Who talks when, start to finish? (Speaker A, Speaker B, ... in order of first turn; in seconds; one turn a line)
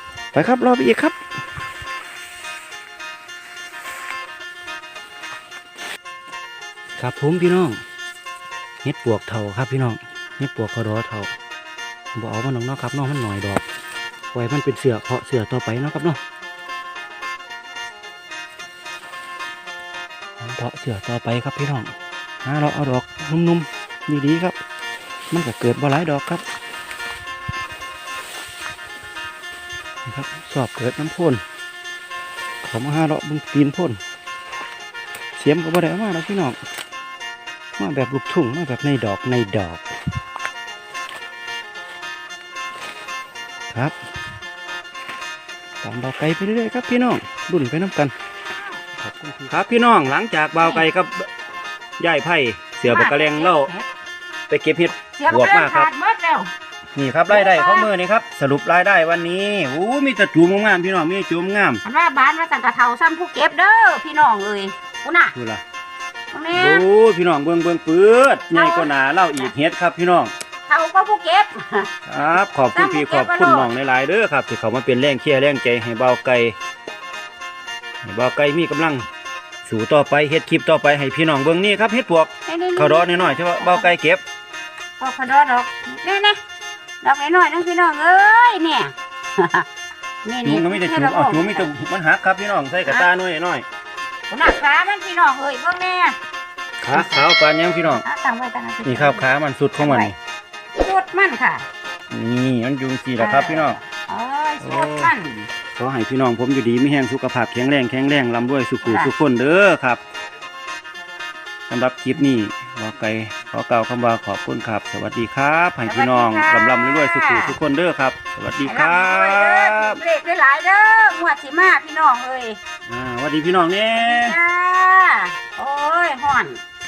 Speaker A: 0.3-1.2
Speaker A: 7.0-7.8
Speaker A: 8.8-11.3
Speaker A: 12.1-13.7
Speaker A: 14.3-16.2
Speaker A: 20.4-24.6
Speaker A: 25.3-26.4
Speaker A: 30.1-31.4
Speaker A: 32.6-34.0
Speaker A: 35.4-36.6
Speaker A: 37.8-39.8
Speaker A: 45.8-48.1
Speaker A: 49.0-51.3
Speaker B: 50.6-50.9
Speaker A: 52.0-53.7
Speaker B: 52.8-53.9
Speaker A: 54.5-55.9
Speaker B: 55.2-56.5
Speaker A: 57.0-61.8
Speaker B: 57.3-57.9
Speaker B: 61.8-65.3
Speaker A: 65.3-65.6
Speaker B: 66.3-66.9
Speaker A: 66.5-70.3
Speaker B: 68.5-69.5
Speaker B: 70.7-73.7
Speaker A: 72.1-76.6
Speaker A: 78.0-79.1
Speaker A: 79.7-84.2
Speaker B: 82.5-84.0
Speaker B: 85.0-86.4
Speaker B: 87.0-89.7
Speaker B: 90.2-91.7
Speaker A: 90.4-93.7
Speaker B: 94.3-96.2
Speaker A: 96.8-98.0
Speaker B: 96.9-97.3
Speaker B: 97.8-99.3
Speaker A: 98.8-100.2
Speaker B: 99.8-100.2
Speaker B: 100.8-101.7
Speaker A: 102.1-103.8
Speaker B: 103.2-105.5
Speaker A: 104.6-105.1
Speaker A: 105.8-110.0
Speaker B: 108.8-109.1
Speaker A: 111.7-120.0
Speaker B: 115.8-117.6
Speaker B: 118.6-122.6
Speaker A: 122.9-124.4
Speaker B: 123.9-126.6